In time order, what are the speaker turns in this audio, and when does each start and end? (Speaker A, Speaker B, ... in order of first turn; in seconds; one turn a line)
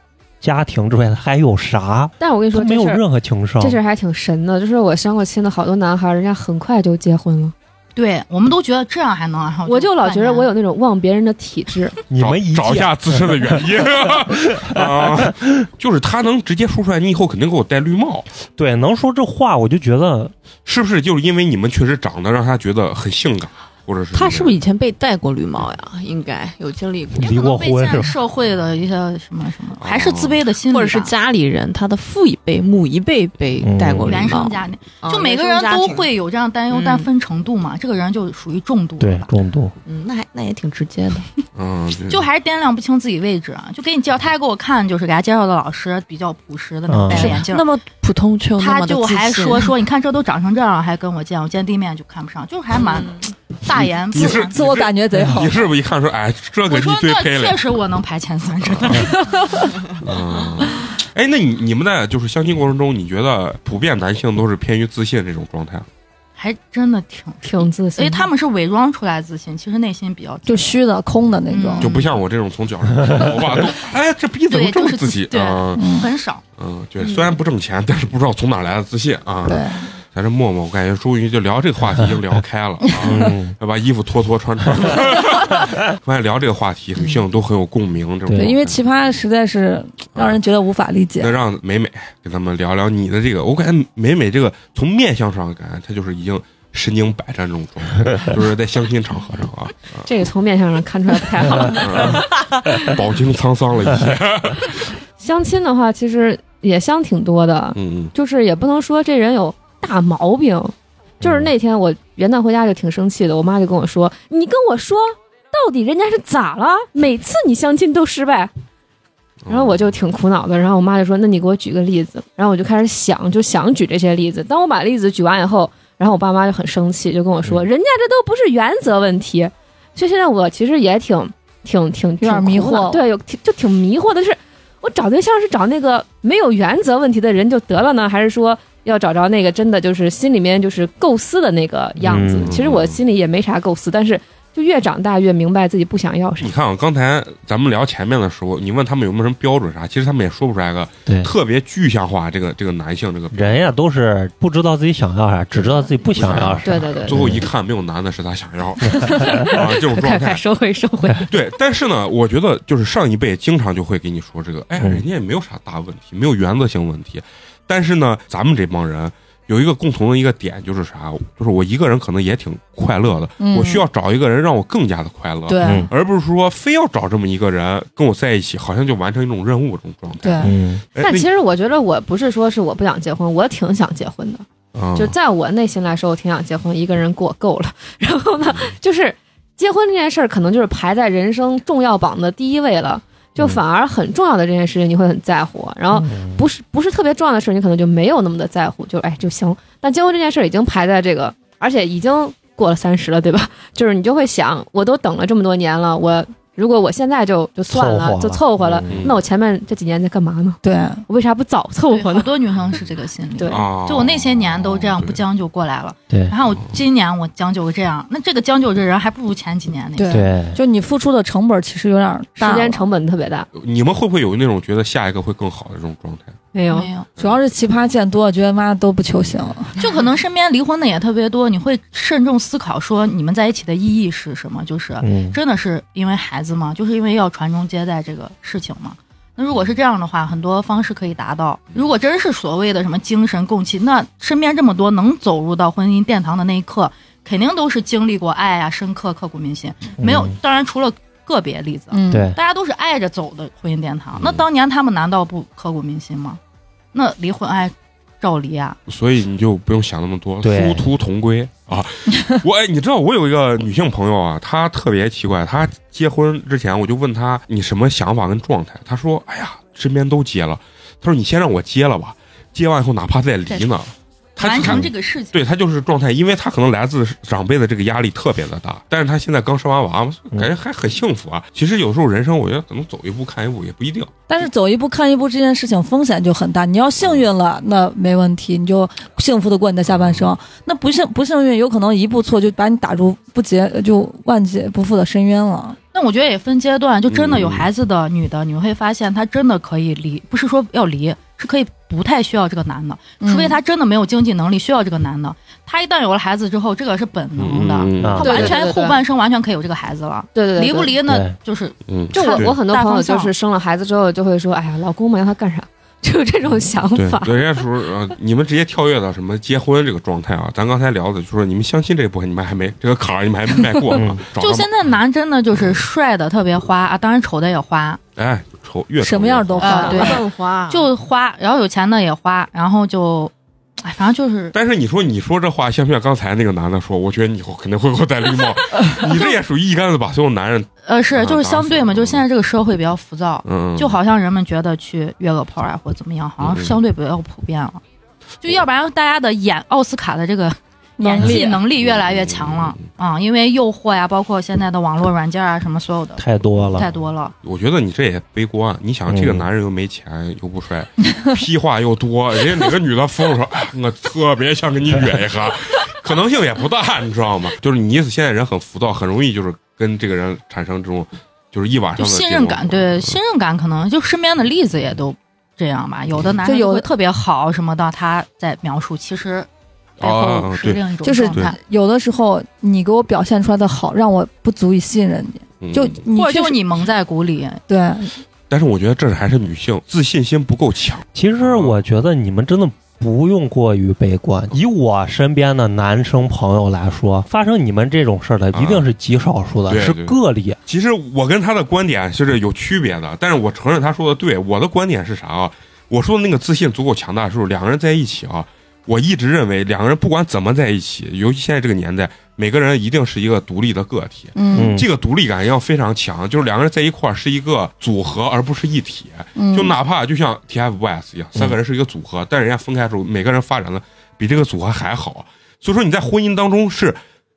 Speaker A: 0.4-3.8
Speaker B: 2.2-3.0
Speaker B: 3.6-7.5
Speaker C: 8.0-10.5
Speaker B: 9.7-12.0
Speaker A: 12.1-13.6
Speaker D: 12.2-18.3
Speaker A: 14.4-15.3
Speaker A: 18.6-20.3
Speaker D: 20.6-24.6
Speaker E: 24.1-27.4
Speaker A: 27.2-28.1
Speaker C: 27.2-31.1
Speaker D: 29.8-30.4
Speaker E: 30.7-36.1
Speaker A: 33.6-34.4
Speaker C: 34.0-39.3
Speaker E: 36.7-37.1
Speaker A: 39.0-39.7
Speaker E: 39.9-41.3
Speaker D: 41.6-42.3
Speaker C: 42.1-47.7
Speaker A: 46.9-47.4
Speaker E: 47.1-49.7
Speaker C: 48.6-54.6
Speaker E: 52.8-53.1
Speaker D: 54.1-57.6
Speaker F: 54.1-55.7
Speaker C: 56.7-59.3
Speaker D: 58.6-59.1
Speaker D: 60.0-65.9
Speaker C: 66.4-70.8
Speaker B: 67.4-68.3
Speaker F: 70.5-71.9
Speaker C: 71.5-72.1
Speaker D: 71.8-75.9
Speaker C: 74.5-76.4
Speaker F: 75.8-76.1
Speaker D: 76.6-88.8
Speaker F: 79.5-79.9
Speaker F: 82.9-83.3
Speaker A: 83.0-83.5
Speaker F: 88.3-91.4
Speaker D: 90.2-90.4
Speaker D: 91.2-100.1
Speaker B: 100.0-102.2
Speaker D: 101.8-104.9
Speaker B: 105.2-118.5
Speaker D: 107.8-108.1
Speaker D: 119.5-119.9
Speaker B: 119.5-146.5
Speaker F: 132.2-133.0
Speaker A: 142.0-142.6
Speaker D: 142.5-143.0
Speaker D: 146.4-153.7
Speaker A: 153.3-157.4
Speaker D: 156.1-160.4
Speaker B: 156.6-157.2
Speaker A: 158.9-159.3
Speaker B: 159.2-161.3
Speaker D: 161.3-181.3
Speaker F: 173.4-173.8
Speaker F: 175.5-175.9
Speaker A: 175.6-175.9
Speaker F: 180.2-180.6
Speaker A: 180.4-180.8
Speaker B: 181.0-212.3
Speaker D: 184.7-185.2
Speaker A: 195.9-196.4
Speaker A: 207.7-209.0
Speaker D: 208.9-209.2
Speaker F: 210.6-211.0
Speaker C: 211.9-220.2
Speaker B: 213.4-213.6
Speaker D: 213.5-215.2
Speaker F: 220.0-222.9
Speaker A: 220.1-220.6
Speaker B: 222.4-223.5
Speaker D: 223.5-226.4
Speaker B: 226.5-226.9
Speaker C: 226.7-227.1
Speaker D: 227.2-227.4
Speaker F: 227.2-229.8
Speaker C: 229.8-256.4
Speaker A: 235.0-235.4
Speaker A: 250.0-250.4
Speaker F: 251.9-252.3
Speaker A: 252.1-252.4
Speaker D: 254.2-254.4
Speaker C: 256.9-258.8
Speaker D: 258.9-284.1
Speaker A: 260.4-260.8
Speaker C: 274.4-275.4
Speaker F: 284.3-295.8
Speaker D: 287.0-287.3
Speaker D: 289.9-290.3
Speaker C: 295.9-313.3
Speaker D: 297.1-297.7
Speaker F: 303.2-303.6
Speaker D: 307.4-308.5
Speaker A: 308.0-308.6
Speaker B: 308.2-309.0
Speaker B: 310.4-310.9
Speaker A: 311.1-311.4
Speaker D: 311.9-312.6
Speaker B: 312.1-317.6
Speaker D: 316.9-324.7
Speaker A: 323.9-324.2
Speaker C: 324.4-328.0
Speaker D: 325.5-325.8
Speaker D: 328.2-330.0
Speaker F: 329.0-330.3
Speaker C: 329.6-334.6
Speaker E: 329.6-330.9
Speaker D: 334.5-342.2
Speaker C: 340.9-347.8
Speaker D: 343.4-344.0
Speaker D: 346.4-346.8
Speaker C: 348.4-357.3
Speaker F: 351.0-351.6
Speaker D: 351.8-352.8
Speaker A: 356.2-356.9
Speaker D: 357.4-373.2
Speaker A: 359.1-359.4
Speaker C: 372.0-379.5
Speaker F: 376.4-376.9
Speaker C: 380.0-381.6
Speaker D: 380.0-381.5
Speaker F: 381.0-386.6
Speaker D: 385.6-386.0
Speaker C: 386.1-387.6
Speaker F: 387.7-388.1
Speaker D: 388.5-391.8
Speaker A: 391.1-400.6
Speaker D: 398.5-398.9
Speaker D: 399.7-427.0
Speaker F: 414.4-414.8
Speaker A: 414.5-414.9
Speaker F: 419.4-419.8